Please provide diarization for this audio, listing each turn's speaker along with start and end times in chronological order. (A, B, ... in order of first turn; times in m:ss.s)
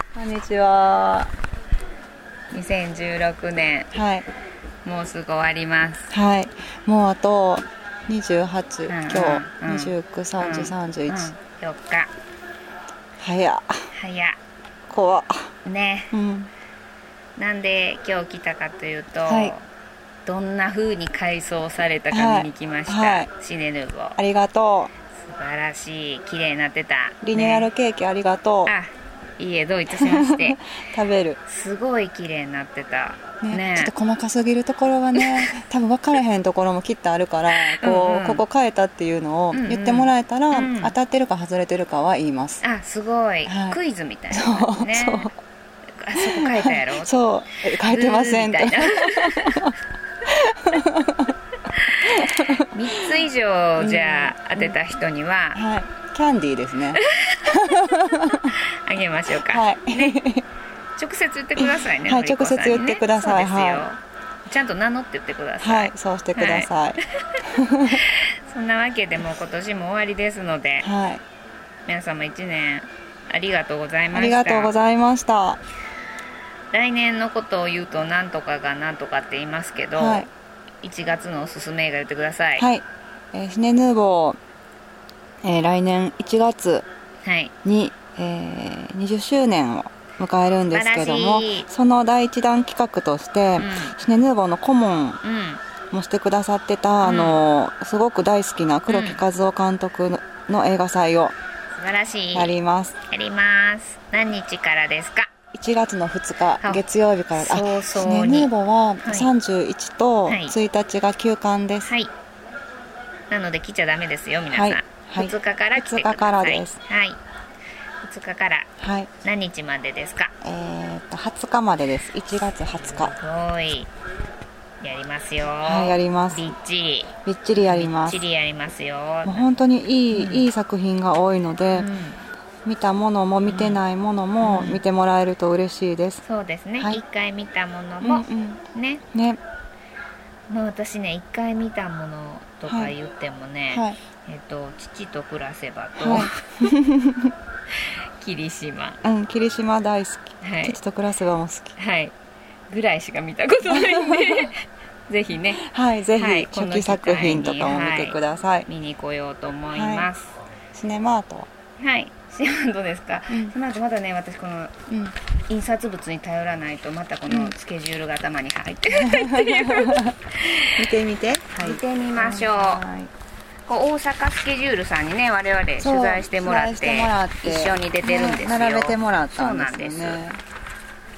0:00.1-0:01.3 A
0:02.5-0:03.9 B
0:03.9-0:04.2 A
0:04.8-0:06.1 B
0:06.1-0:11.3 A
0:08.9-0:12.1 B
0:13.2-0:13.8 A
0:13.9-0:14.4 B
0:14.9-0:15.5 A
0:15.6-0:16.1 B
0:16.1-0:16.5 A
0:17.4-0:19.6 B
0:19.3-0:19.5 A
0:20.2-0:24.2 B
0:22.1-0:23.3 A
0:24.2-0:24.9 A
0:25.1-0:27.7 B
0:27.2-0:28.7 A
0:28.6-0:30.6 B
0:29.9-0:31.4 A
0:31.4-0:33.9 B
0:33.4-0:42.6 A
0:35.2-0:35.5 B
0:37.5-0:38.4 B
0:39.5-0:40.9 B
0:42.6-0:45.3 B
0:43.5-0:43.8 A
0:44.3-0:45.3 A
0:46.0-0:49.7 B
0:46.1-0:49.7 A
0:50.2-0:51.3 A
0:51.7-0:55.6 B
0:52.0-0:53.1 A
0:53.8-0:54.7 A
0:55.5-0:58.5 A
0:57.0-1:00.2 B
0:59.3-1:00.4 A
1:01.0-1:10.9 B
1:01.6-1:03.8 A
1:05.6-1:08.0 A
1:10.8-1:11.2 A
1:11.8-1:14.7 B
1:14.1-1:15.6 A
1:16.7-1:20.3 B
1:20.0-1:20.3 A
1:20.8-1:22.7 B
1:22.6-1:24.4 A
1:25.4-1:26.9 A
1:27.2-1:27.5 B
1:27.6-1:35.2 A
1:30.7-1:31.7 B
1:33.6-1:33.9 B
1:35.2-1:35.6 B
1:35.9-1:41.3 A
1:37.0-1:37.4 B
1:38.9-1:39.2 B
1:41.7-1:42.5 B
1:42.3-1:43.0 A
1:43.1-1:45.3 B
1:45.5-1:51.9 A
1:47.3-1:48.5 B
1:49.0-1:49.3 B
1:50.2-1:50.5 B
1:51.8-1:52.1 B
1:53.3-1:57.2 B
1:54.5-1:56.8 A
1:58.0-1:58.7 B
1:58.8-1:59.1 A
1:59.2-2:00.3 B
2:00.4-2:03.2 A
2:02.8-2:03.9 B
2:04.8-2:09.5 B
2:05.6-2:06.5 A
2:07.2-2:08.2 A
2:09.2-2:11.9 A
2:10.1-2:10.5 B
2:11.7-2:12.2 B
2:12.6-2:16.2 A
2:13.5-2:13.8 B
2:14.4-2:14.8 B
2:16.2-2:19.0 B
2:18.0-2:19.4 A
2:20.5-2:26.7 B
2:22.7-2:22.9 A
2:23.7-2:24.0 A
2:26.0-2:27.3 A
2:27.7-2:29.0 B
2:29.0-2:31.7 A
2:30.4-2:30.8 B
2:31.8-2:32.1 B
2:32.7-2:35.6 B
2:33.7-2:34.5 A
2:35.5-2:38.7 A
2:36.1-2:40.4 B
2:39.7-2:40.1 A
2:40.7-2:41.5 A
2:41.8-2:44.7 B
2:43.3-2:43.6 A
2:44.9-2:45.1 A
2:45.5-2:50.7 B
2:47.3-2:47.5 A
2:48.9-2:50.1 A
2:50.8-2:53.1 A
2:51.6-2:52.8 B
2:53.7-3:00.2 B
2:55.8-3:00.4 A